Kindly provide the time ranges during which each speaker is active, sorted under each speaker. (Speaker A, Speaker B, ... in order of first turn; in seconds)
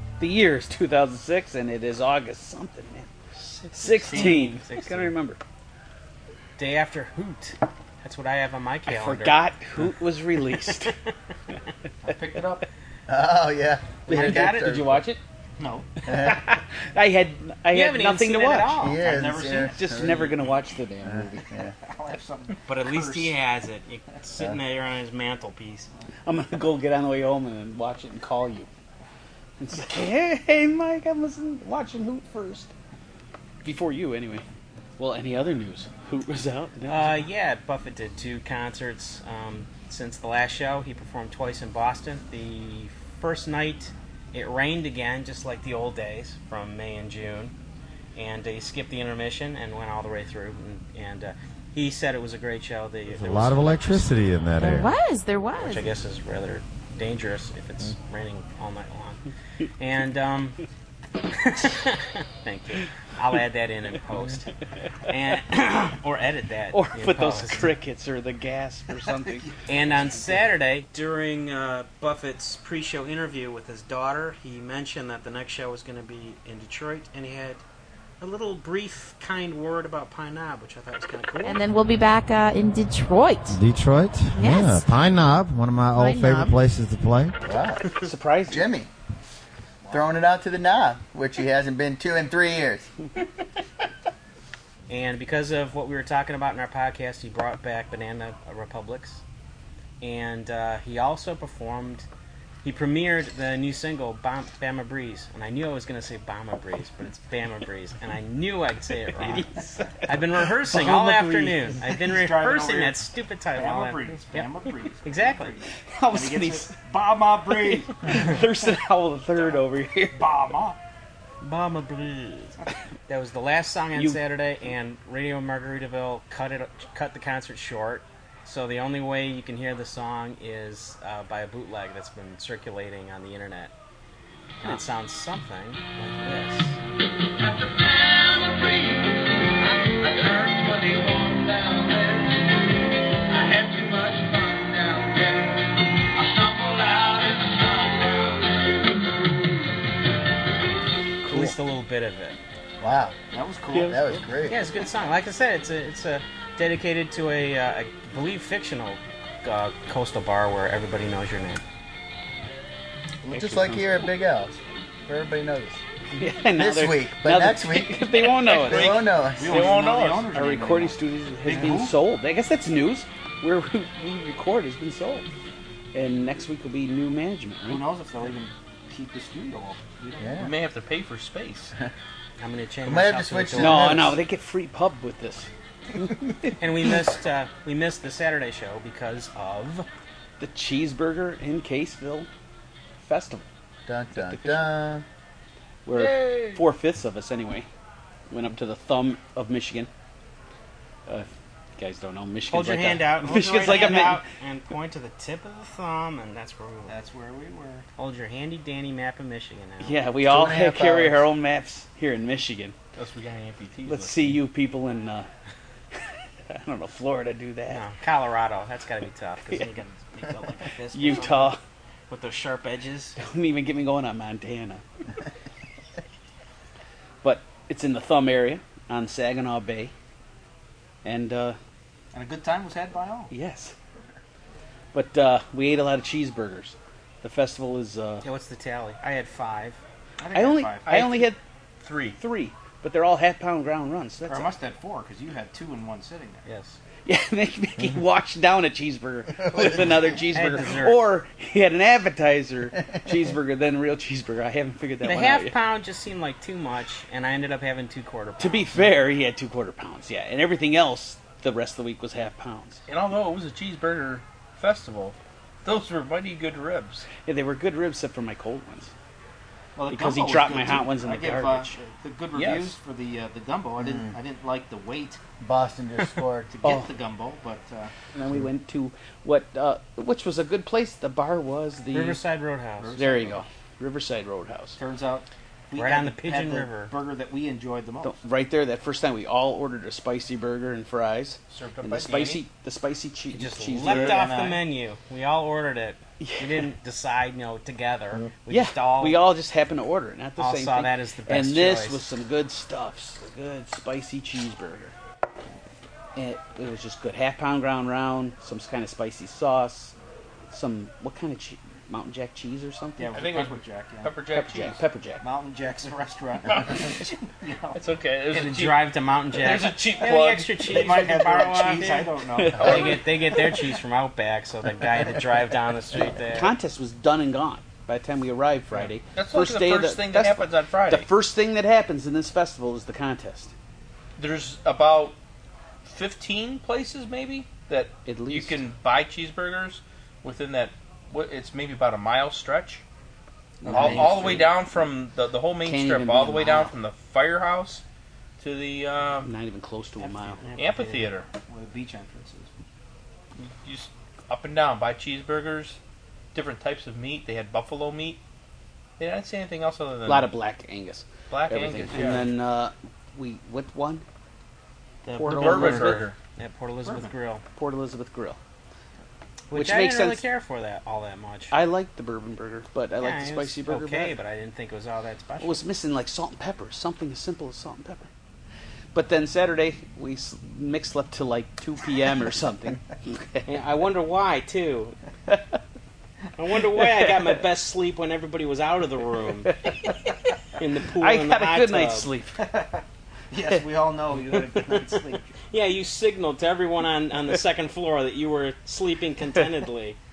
Speaker A: 0.2-3.1, 3.7-5.4, 8.9-10.9, 14.1-15.2, 16.1-18.8, 19.6-21.5, 26.2-28.7, 29.6-32.7, 33.6-34.4, 35.0-37.2, 66.7-69.5, 88.0-88.6, 109.2-110.2, 110.7-111.7, 115.8-116.8, 117.5-120.2, 123.9-124.2, 151.2-151.6, 153.7-154.2, 166.2-168.9, 170.3-175.3, 175.9-177.8, 183.6-185.5, 190.4-192.3, 193.0-193.4, 194.2-194.7, 195.8-197.7, 198.3-199.9, 201.1-204.2, 209.8-212.7, 213.8-215.3, 216.5-217.8, 220.9-221.6, 223.2-224.8, 227.2-229.9, 231.0-231.6, 233.3-233.7, 234.9-238.3, 240.3-241.4, 242.2-244.5, 247.0-255.6, 258.4-262.8, 267.2-268.9, 269.9-271.7, 276.6-276.9, 278.1-282.2, 282.9-284.8, 288.0-294.3, 296.2-296.7, 298.5-304.9, 306.1-309.9, 310.5-313.1, 314.3-315.2, 322.4-322.7, 326.2-333.5, 338.1-338.6, 343.6-344.5, 345.6-346.7, 349.2-350.4, 360.0-364.0, 365.2-366.1, 367.5-368.4, 369.5-370.2, 371.5-374.1, 375.4-378.1, 378.9-383.5, 389.5-389.9, 391.0-392.4
Speaker B: 3.5-5.1, 6.6-9.4, 14.1-15.0, 17.7-19.0, 22.7-25.9, 36.9-47.5, 48.1-54.0, 55.6-59.2, 59.8-60.6, 61.3-64.5, 65.1-67.7, 69.7-77.6, 78.2-81.6, 94.9-99.2, 100.0-102.1, 102.6-109.5, 110.0-114.5, 115.0-115.5, 121.4-122.6, 123.1-133.7, 134.6-136.8, 151.2-152.4, 154.5-161.6, 182.4-184.1, 186.6-189.9, 202.5-206.9, 208.0-210.0, 217.7-221.6, 222.1-223.2, 238.2-239.8, 246.4-246.8, 250.3-251.0, 255.0-258.6, 281.9-282.9, 285.8-286.9, 293.3-299.2, 300.4-302.0, 318.3-326.5, 365.4-367.4, 369.5-371.5, 373.0-375.6, 383.4-384.9, 386.4-389.6, 390.6-392.1, 394.5-395.0, 395.5-400.0
Speaker C: 4.0-4.5, 12.0-12.6, 15.6-15.9, 19.0-20.4, 21.8-23.4, 69.0-70.5, 110.9-113.0, 113.5-118.4, 120.1-120.8, 143.4-145.1, 153.3-154.2, 168.5-171.9, 177.7-180.5, 206.9-207.9, 232.1-233.3, 240.2-241.1, 244.2-246.4, 269.8-275.2, 276.5-277.9, 282.8-283.4, 284.8-288.2, 293.8-294.7, 312.9-314.1, 315.2-317.8, 320.6-323.1, 343.6-344.5, 350.0-350.8, 351.4-352.5, 365.2-366.0, 366.9-367.1, 392.4-395.3
Speaker D: 13.1-15.0, 16.1-16.4, 18.8-20.2, 21.1-21.7, 87.4-87.8, 88.5-88.9, 89.9-92.9, 152.8-153.2, 153.9-154.6, 163.2-165.8, 166.5-169.8, 180.2-180.5, 182.8-184.2, 193.9-195.0, 210.2-211.2, 273.8-274.1, 275.4-276.6
Speaker E: 53.1-54.9, 83.5-87.4
Speaker F: 54.6-55.9, 81.4-83.6, 84.3-84.9, 86.0-86.6
Speaker G: 168.7-169.0, 169.5-170.3, 180.4-181.7, 212.9-214.4, 240.9-241.2, 241.8-242.2, 262.9-267.1, 272.3-272.8, 291.5-292.4, 313.1-314.8, 316.5-316.9, 317.7-320.7, 329.1-331.1, 334.2-335.1, 335.8-342.8, 343.6-347.8, 348.4-349.3, 350.6-351.3, 353.5-355.8, 356.3-358.2, 359.0-360.3, 361.3-362.3, 365.1-366.2